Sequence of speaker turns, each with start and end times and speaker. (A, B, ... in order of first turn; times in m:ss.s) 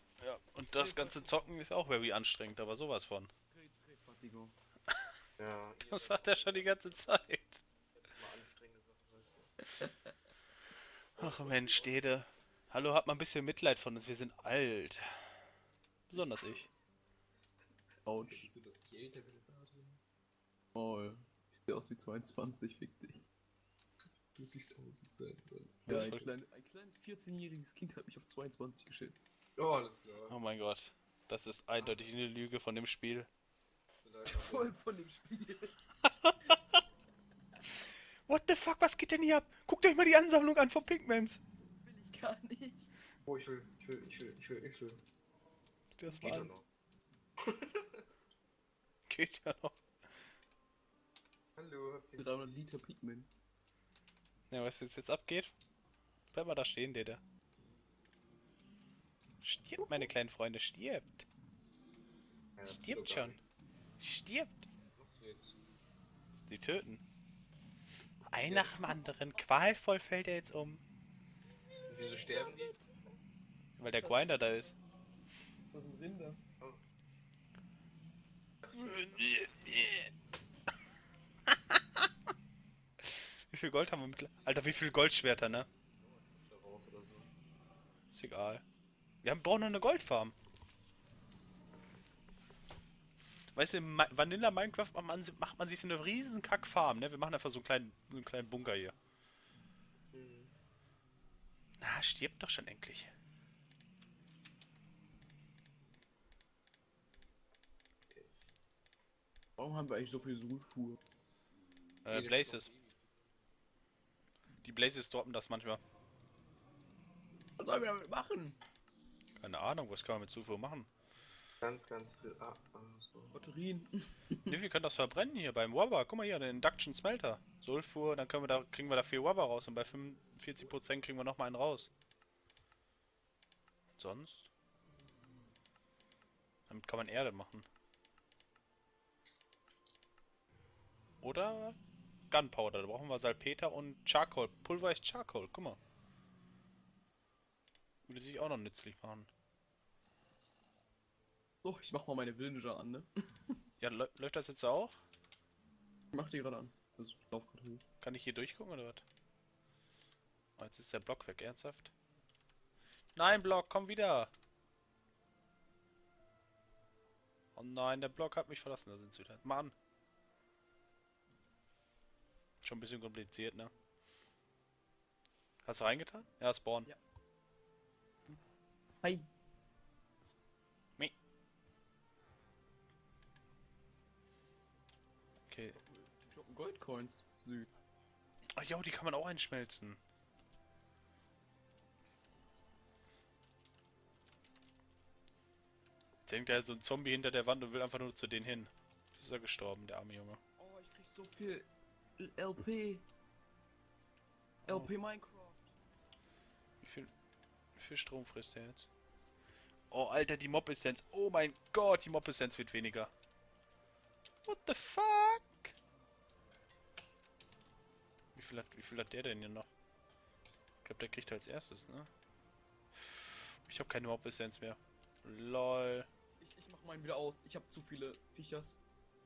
0:00.2-0:03.3 A
0:00.8-0:01.4 B
0:03.5-0:04.6 B
0:04.9-0:05.2 A
0:05.4-0:07.0 C
0:05.9-0:07.6 A
0:07.9-0:09.5 C
0:11.2-0:12.0 C
0:11.2-0:15.4 A
0:16.1-0:16.7 A
0:16.2-0:16.7 C
0:18.1-0:18.5 B
0:18.2-0:20.0 C
0:20.8-0:23.2 B
0:24.4-0:26.2 C
0:25.9-0:26.3 A
0:25.9-0:29.3 B
0:29.6-0:30.4 C
0:30.2-0:33.3 A
0:34.0-0:34.7 C
0:34.2-0:35.8 B
0:36.0-0:36.8 A
0:38.3-0:41.4 A
0:41.7-0:42.9 B
0:43.3-0:45.0 C
0:46.0-0:46.5 A
0:46.1-0:46.5 B
0:46.2-0:46.7 C
0:47.5-0:48.0 C
0:49.1-0:49.8 A
0:51.6-0:52.4 C
0:52.2-0:53.3 B
0:54.5-0:55.5 A
0:56.3-0:57.2 A
0:59.4-1:01.3 A
0:59.8-1:00.1 B
1:02.6-1:03.4 C
1:02.8-1:03.4 A
1:04.0-1:04.7 A
1:04.9-1:05.6 C
1:06.5-1:07.0 A
1:08.3-1:10.8 A
1:08.4-1:08.8 C
1:11.9-1:12.8 C
1:11.9-1:13.0 B
1:13.8-1:14.8 A
1:14.0-1:14.7 B
1:15.7-1:16.4 B
1:18.7-1:20.1 A
1:21.5-1:22.1 A
1:23.0-1:25.7 A
1:26.0-1:27.3 C
1:28.1-1:28.6 A
1:29.2-1:30.4 A
1:33.6-1:39.0 A
1:40.1-1:40.6 C
1:41.8-1:43.1 A
1:49.6-1:51.0 B
1:52.0-1:52.7 A
1:52.1-1:53.0 C
1:54.6-1:55.8 A
1:57.6-1:58.6 B
1:59.4-2:00.9 A
2:01.6-2:03.4 C
2:03.3-2:04.6 B
2:04.5-2:11.9 A
2:14.0-2:14.5 A
2:16.7-2:17.6 A
2:21.2-2:21.8 A
2:22.3-2:25.8 A
2:28.1-2:29.3 A
2:31.6-2:33.6 B
2:33.8-2:35.0 A
2:36.1-2:37.8 B
2:38.0-2:39.0 A
2:40.6-2:41.9 A
2:43.2-2:44.3 A
2:47.6-2:49.7 A
2:52.6-2:53.7 A
2:55.6-2:56.9 A
2:58.3-2:59.3 B
3:05.5-3:05.8 A
3:05.8-3:07.7 B
3:08.6-3:10.0 A
3:16.3-3:20.4 A
3:20.6-3:23.0 B
3:24.6-3:24.9 A
3:24.7-3:25.8 B
3:26.8-3:27.1 A
3:27.8-3:28.9 A
3:29.9-3:33.1 A
3:34.4-3:35.7 A
3:38.4-3:39.7 A
3:40.8-3:42.1 A
3:43.2-3:46.1 A
3:46.4-3:48.8 B